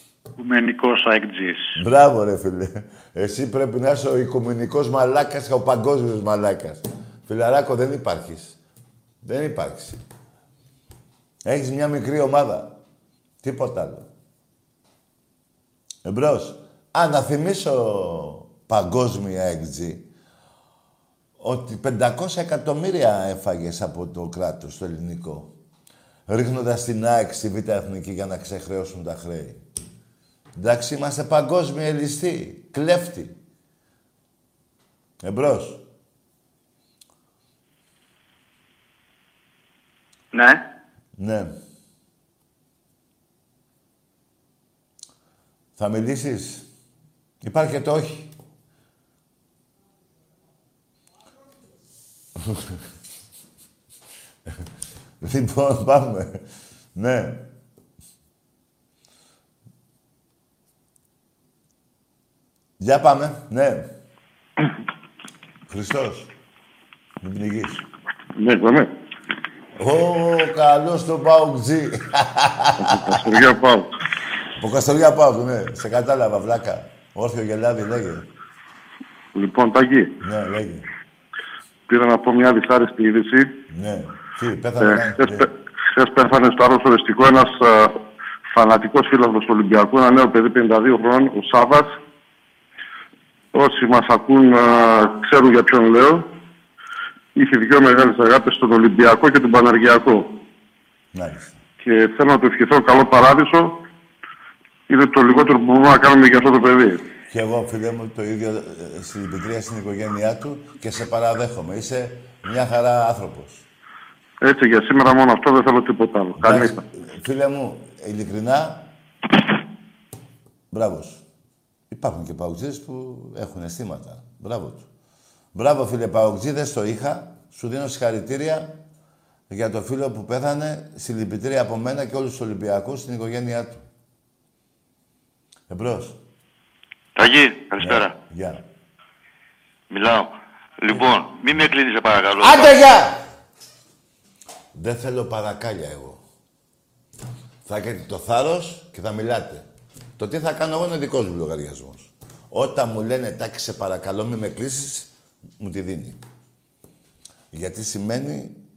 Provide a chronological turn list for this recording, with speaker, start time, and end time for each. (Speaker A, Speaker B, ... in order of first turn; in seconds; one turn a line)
Speaker A: 1.7-8.6
Speaker A: 9.2-10.0
Speaker A: 11.5-12.8
Speaker A: 13.4-14.1
Speaker A: 16.1-20.1
Speaker A: 21.4-25.5
Speaker A: 26.3-29.6
Speaker A: 30.6-33.4
Speaker A: 35.2-35.8
Speaker A: 41.2-41.5
Speaker A: 45.8-46.7
Speaker A: 47.4-48.3
Speaker A: 55.2-56.3
Speaker A: 57.0-57.5
Speaker A: 62.8-63.9
Speaker A: 65.7-66.3
Speaker A: 67.2-67.8
Speaker B: 68.4-68.9
Speaker A: 69.8-73.2
Speaker B: 72.8-73.9
Speaker A: 74.6-78.2
Speaker B: 79.3-80.1
Speaker A: 80.2-80.9
Speaker B: 81.9-83.5
Speaker A: 83.7-85.5
Speaker B: 84.8-88.0
Speaker B: 88.5-91.9
Speaker B: 93.5-96.2
Speaker B: 97.4-100.3
Speaker A: 101.1-101.6
Speaker B: 101.8-103.7
Speaker B: 104.9-107.0
Speaker A: 107.3-113.7
Speaker B: 114.4-116.8
Speaker A: 116.4-118.9
Speaker A: 120.7-121.2
Speaker A: 121.9-124.9
Speaker A: 125.5-128.7
Speaker A: 129.5-133.8
Speaker A: 135.7-136.2
Speaker C: 137.3-138.1
Speaker A: 137.8-138.6
Speaker C: 140.0-140.3
Speaker C: 140.8-142.4
Speaker A: 142.4-143.2
Speaker A: 144.7-146.2
Speaker A: 147.7-149.7
Speaker A: 150.2-156.2
Speaker A: 157.5-158.6